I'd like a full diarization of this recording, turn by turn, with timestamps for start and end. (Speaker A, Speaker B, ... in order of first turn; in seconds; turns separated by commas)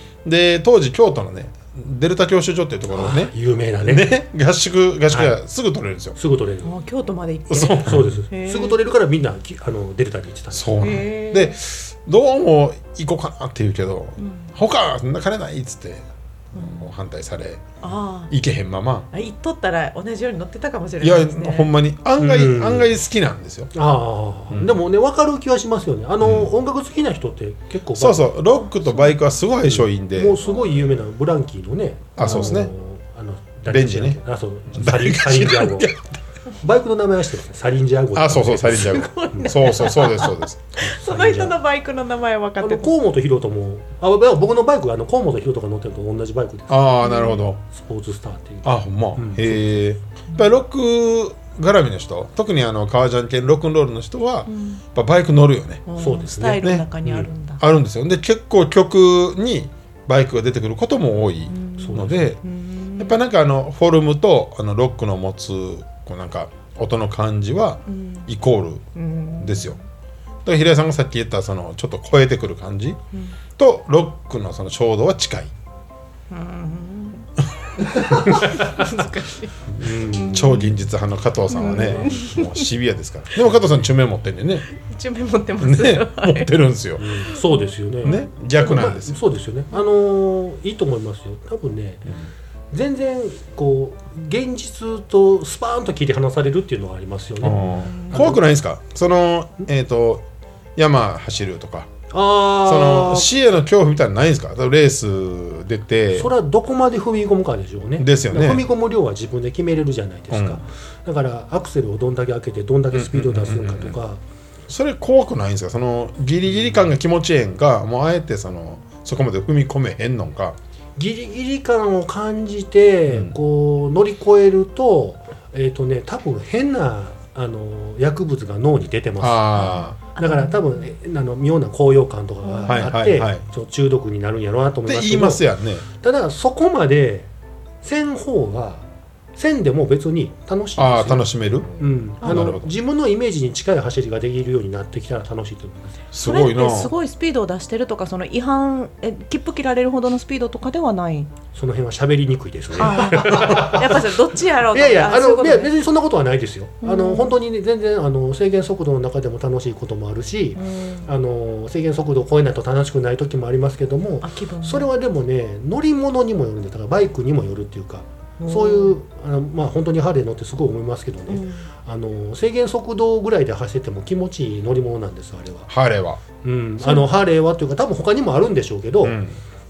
Speaker A: 0.2-6.2, Speaker B: 2.9-4.1, Speaker B: 5.1-5.3, Speaker B: 6.2-6.7, Speaker C: 6.6-8.8, Speaker A: 7.5-8.1, Speaker B: 7.6-10.9, Speaker A: 10.5-17.6, Speaker C: 10.8-11.5, Speaker C: 14.2-14.5, Speaker C: 16.5-16.8, Speaker C: 17.8-18.3, Speaker A: 18.3-19.1, Speaker C: 19.1-21.7, Speaker A: 21.0-23.7, Speaker B: 22.2-22.9, Speaker B: 23.7-28.4, Speaker A: 24.5-24.8, Speaker A: 26.2-26.5, Speaker A: 27.9-30.4, Speaker C: 28.7-29.2, Speaker B: 29.6-35.9, Speaker A: 32.1-32.7, Speaker A: 33.7-34.2, Speaker A: 34.7-36.1, Speaker B: 36.6-39.6, Speaker A: 38.1-40.9, Speaker C: 38.8-42.9, Speaker B: 40.8-41.6, Speaker B: 42.6-46.9, Speaker A: 46.7-47.6, Speaker C: 47.0-47.4, Speaker B: 47.7-49.8, Speaker A: 48.6-55.8, Speaker C: 54.5-54.8, Speaker C: 55.9-57.6, Speaker B: 56.0-57.2, Speaker A: 56.5-62.4, Speaker C: 61.5-63.2, Speaker B: 61.8-62.3, Speaker A: 63.0-68.8, Speaker C: 67.9-68.2, Speaker C: 68.9-69.8, Speaker A: 69.4-69.8, Speaker A: 70.4-73.0, Speaker A: 73.6-75.5, Speaker C: 76.3-77.3, Speaker C: 77.9-80.7, Speaker B: 79.8-80.5, Speaker A: 80.2-84.7, Speaker C: 81.5-82.6, Speaker B: 81.7-82.2, Speaker C: 84.7-86.5, Speaker A: 85.6-87.1, Speaker B: 87.0-92.1, Speaker C: 87.3-88.3, Speaker A: 88.0-89.2, Speaker B: 92.7-98.4, Speaker A: 97.4-100.2, Speaker C: 97.8-98.1, Speaker A: 100.8-101.9, Speaker B: 102.1-103.3, Speaker A: 102.6-106.3, Speaker B: 106.1-114.2, Speaker A: 108.0-108.7, Speaker A: 110.3-110.6, Speaker A: 112.9-114.0, Speaker A: 114.7-120.6, Speaker B: 121.0-137.3, Speaker A: 123.1-123.3, Speaker A: 129.2-130.0, Speaker C: 129.6-130.9, Speaker C: 132.4-132.8, Speaker A: 132.7-133.4, Speaker A: 134.9-135.8, Speaker B: 137.8-138.8, Speaker B: 139.3-146.0, Speaker A: 140.8-142.7, Speaker A: 146.1-146.9, Speaker C: 146.2-151.3, Speaker B: 151.5-154.1, Speaker C: 152.8-155.7, Speaker B: 154.7-175.7, Speaker C: 156.8-157.3, Speaker C: 160.6-161.1, Speaker C: 164.2-164.9, Speaker C: 168.4-168.9, Speaker C: 171.3-171.7, Speaker A: 175.7-176.2, Speaker B: 176.4-179.2, Speaker C: 176.8-177.1, Speaker A: 179.0-179.4